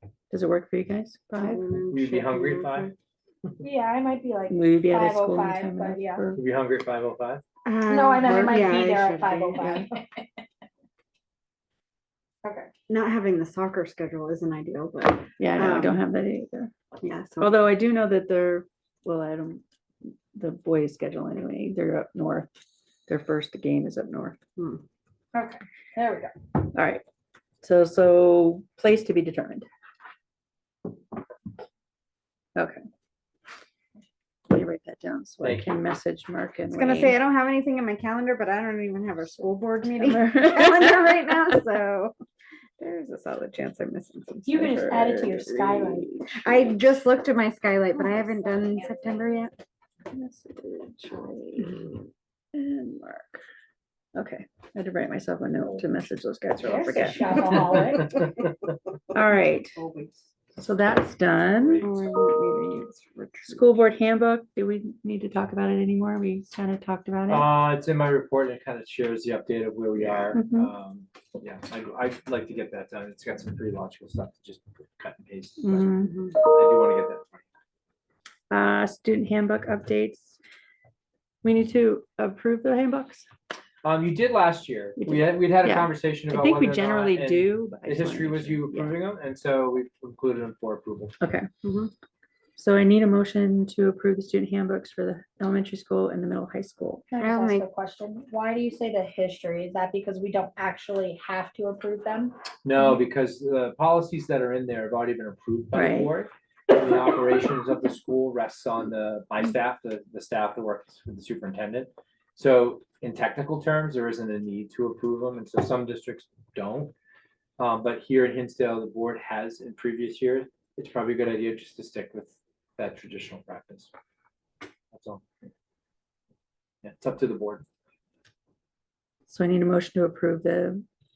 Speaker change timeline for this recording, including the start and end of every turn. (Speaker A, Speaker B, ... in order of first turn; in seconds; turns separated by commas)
Speaker A: 0.3-1.6, Speaker B: 1.4-2.9, Speaker C: 1.9-3.6, Speaker D: 3.6-6.2, Speaker A: 4.5-6.4, Speaker C: 6.3-7.4, Speaker B: 7.7-9.8, Speaker D: 7.9-10.1, Speaker A: 8.3-8.6, Speaker A: 9.6-9.8, Speaker D: 12.4-12.7, Speaker B: 12.9-16.1, Speaker A: 15.4-16.7, Speaker B: 17.0-17.6, Speaker A: 17.4-19.6, Speaker A: 20.3-22.5, Speaker A: 23.1-24.4, Speaker B: 24.6-24.9, Speaker D: 25.3-26.3, Speaker A: 26.6-27.0, Speaker A: 27.6-29.7, Speaker A: 32.6-32.8, Speaker A: 34.5-37.2, Speaker C: 35.4-35.7, Speaker B: 36.7-42.1, Speaker A: 40.0-40.9, Speaker B: 42.8-45.2, Speaker D: 44.5-46.1, Speaker A: 45.2-46.6, Speaker B: 46.3-49.6, Speaker D: 48.3-49.0, Speaker A: 50.1-52.0, Speaker A: 52.5-53.4, Speaker A: 54.1-57.9, Speaker D: 56.6-58.3, Speaker C: 57.4-58.5, Speaker A: 59.1-59.8, Speaker B: 59.8-60.3, Speaker A: 60.6-61.9, Speaker C: 61.6-62.1, Speaker B: 61.8-63.8, Speaker A: 63.5-67.5, Speaker C: 67.3-77.5, Speaker B: 70.0-70.4, Speaker A: 70.3-70.7, Speaker A: 75.6-76.2, Speaker A: 78.5-80.4, Speaker A: 81.4-83.3, Speaker C: 83.8-91.2, Speaker A: 85.0-89.0, Speaker A: 91.2-91.5, Speaker B: 91.6-91.9, Speaker A: 92.6-97.1, Speaker D: 97.2-102.3, Speaker B: 97.2-97.7, Speaker C: 102.7-116.9, Speaker A: 105.7-106.1, Speaker C: 117.6-123.9, Speaker C: 124.9-125.2, Speaker C: 126.8-127.7, Speaker A: 129.3-130.8